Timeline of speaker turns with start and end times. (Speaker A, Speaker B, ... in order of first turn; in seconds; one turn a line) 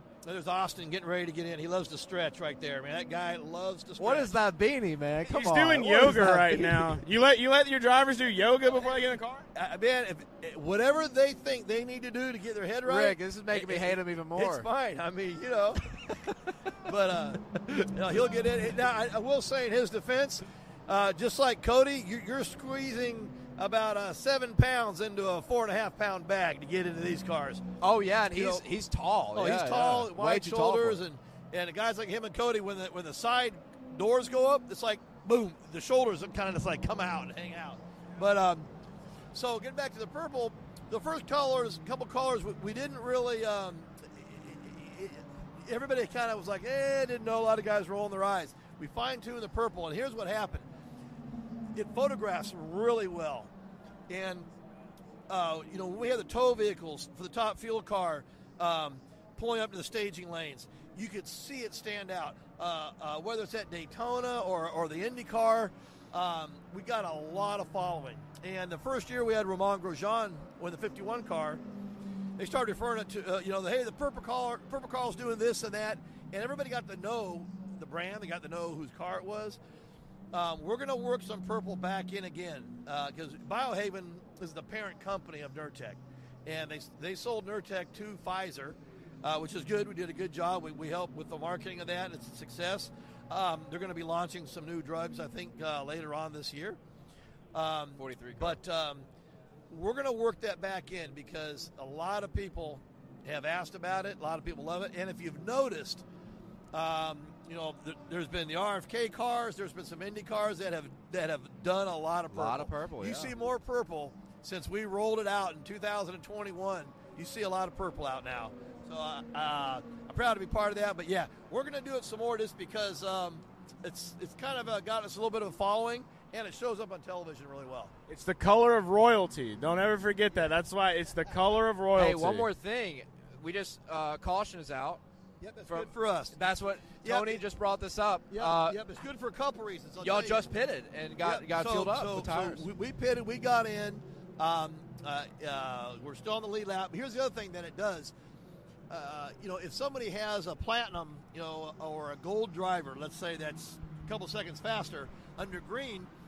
Speaker A: 0.2-4.3
Speaker B: 4.0-7.0
Speaker C: 5.2-9.5
Speaker A: 9.5-16.2
Speaker B: 12.8-14.7
Speaker A: 16.7-27.6
Speaker B: 27.8-31.0
Speaker A: 28.3-28.6
Speaker A: 29.3-38.7
Speaker A: 39.3-50.6
Speaker A: 51.7-53.5
Speaker A: 54.1-54.5
Speaker A: 55.3-71.6
Speaker A: 72.4-79.6
Speaker A: 80.3-96.8
Speaker A: 97.5-99.0
Speaker B: 98.0-98.6
Speaker A: 99.7-106.0
Speaker A: 106.7-127.9
Speaker B: 112.3-113.3
Speaker C: 128.1-132.5
Speaker B: 131.9-135.0
Speaker A: 135.4-136.4
Speaker B: 135.7-138.8
Speaker A: 137.0-137.4
Speaker A: 138.3-140.5
Speaker B: 140.0-142.7
Speaker A: 141.2-148.1
Speaker A: 148.9-156.1